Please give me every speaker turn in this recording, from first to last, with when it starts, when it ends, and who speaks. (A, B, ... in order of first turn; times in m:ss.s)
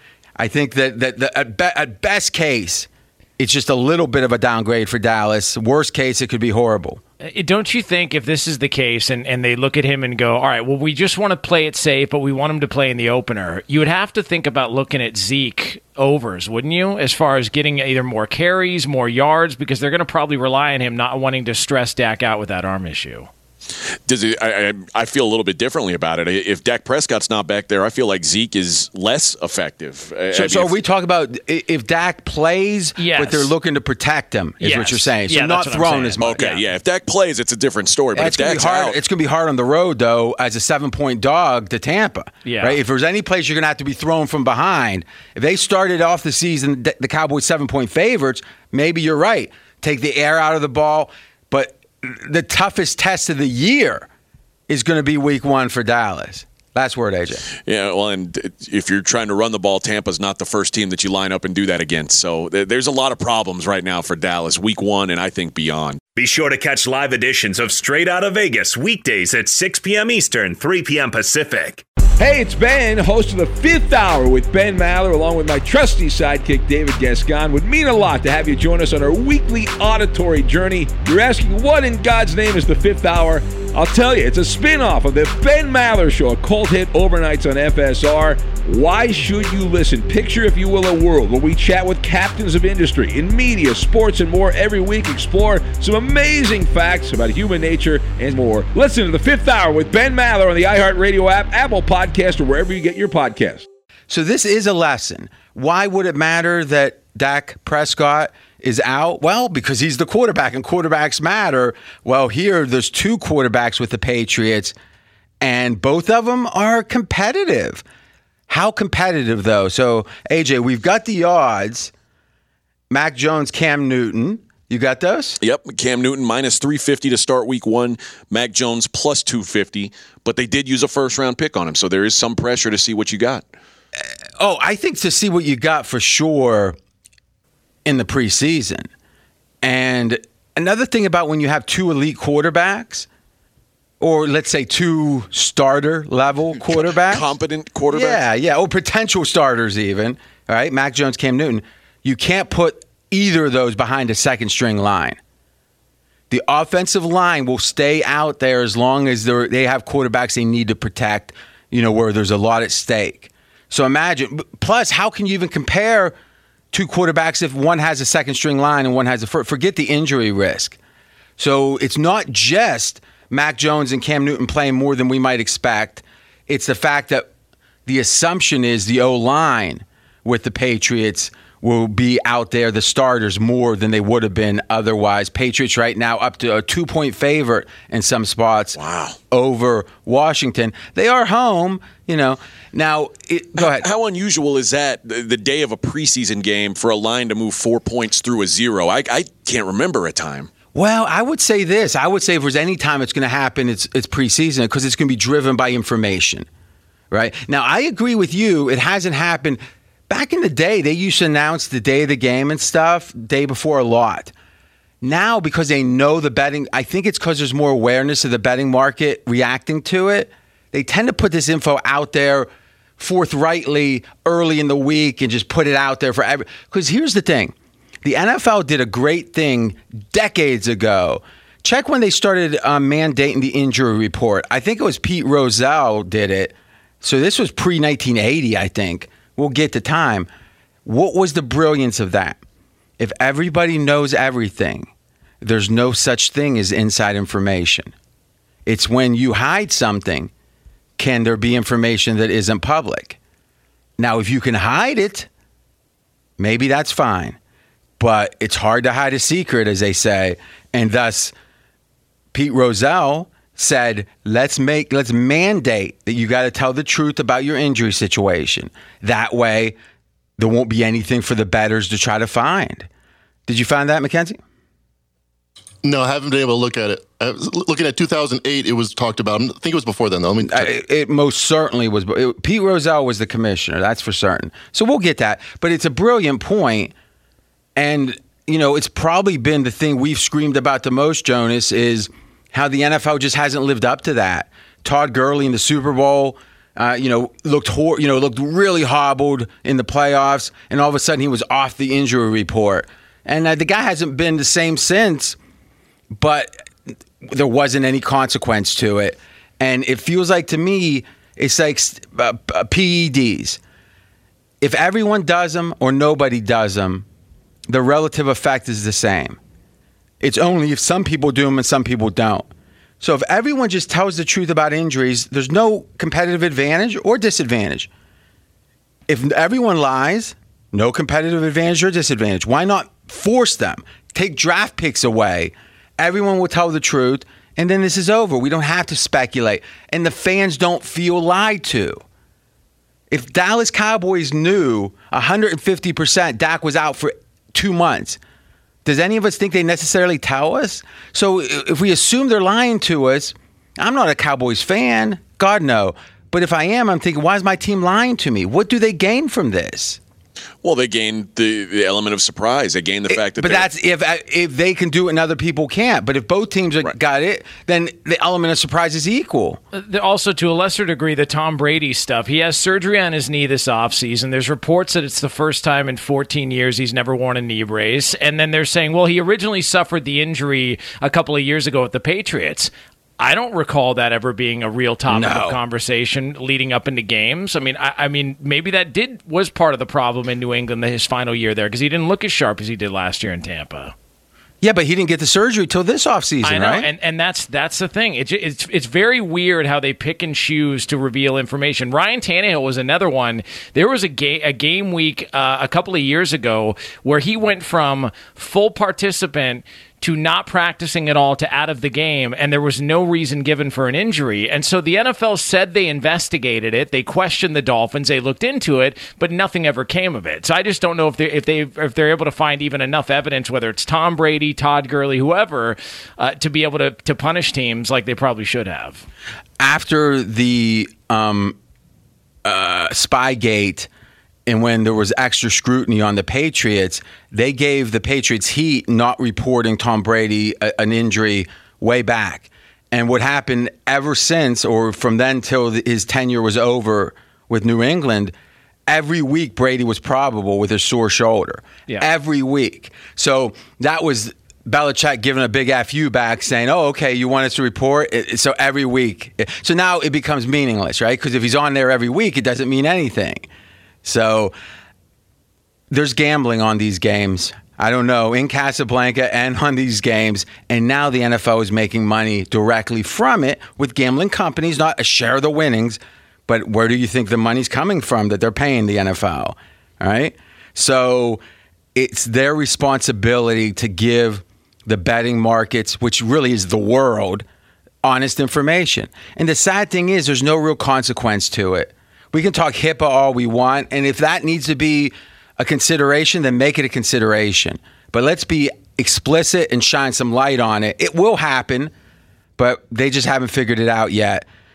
0:00.4-0:07.0 A
0:07.2-0:23.3 B
0:24.1-0:30.7 C
0:30.3-0:36.5 A
0:33.0-0:33.5 B
0:34.6-0:36.6 B
0:36.2-0:39.0 C
0:38.2-0:54.1 A
0:42.4-0:42.8 B
0:54.7-0:57.5 A
0:57.7-1:06.0 C
1:06.2-1:11.8 D
1:12.2-1:43.7 E
1:44.1-1:54.8 A
1:55.4-1:57.8 A
1:58.5-2:01.9 A
2:02.9-2:05.4 A
2:05.4-2:13.4 C
2:14.0-2:16.8 A
2:17.8-2:18.9 A
2:19.6-2:23.1 A
2:24.0-2:27.3 A
2:26.6-2:28.2 C
2:27.9-2:35.2 A
2:36.3-2:46.2 A
2:46.7-2:50.8 A
2:51.4-2:57.3 A
2:57.9-3:08.8 A
3:08.8-3:09.2 C
3:09.3-3:13.9 A
3:13.6-3:20.5 C
3:20.7-3:26.5 A
3:27.1-3:34.3 A
3:35.0-4:00.3 A
4:00.8-4:02.4 A
4:03.0-4:04.9 A
4:05.4-4:07.9 A
4:08.7-4:10.3 A
4:11.0-4:13.2 A
4:14.0-4:15.3 A
4:16.4-4:17.4 A
4:18.0-4:21.3 A
4:22.3-4:29.8 A
4:30.4-4:32.9 A
4:33.5-4:34.4 A
4:35.8-4:40.7 F
4:40.5-4:46.9 A
4:47.8-5:05.4 A
5:06.1-5:06.7 A
5:07.2-5:13.6 A
5:14.6-5:17.1 A
5:17.7-5:19.4 A
5:20.2-5:22.5 A
5:23.0-5:27.9 A
5:29.1-5:42.0 A
5:43.1-5:48.2 A
5:48.8-6:00.0 A
6:00.6-6:03.7 C
6:03.1-6:09.6 A
6:09.7-6:33.9 B
6:25.1-6:25.6 A
6:34.6-6:36.9 A
6:36.4-7:09.0 B
7:09.6-7:11.6 A
7:12.4-7:13.9 A
7:14.5-7:28.3 A
7:28.9-7:43.5 A
7:44.0-7:44.5 A
7:45.9-8:01.4 A
8:02.0-8:07.5 A
8:08.0-8:21.9 A
8:22.6-8:24.4 A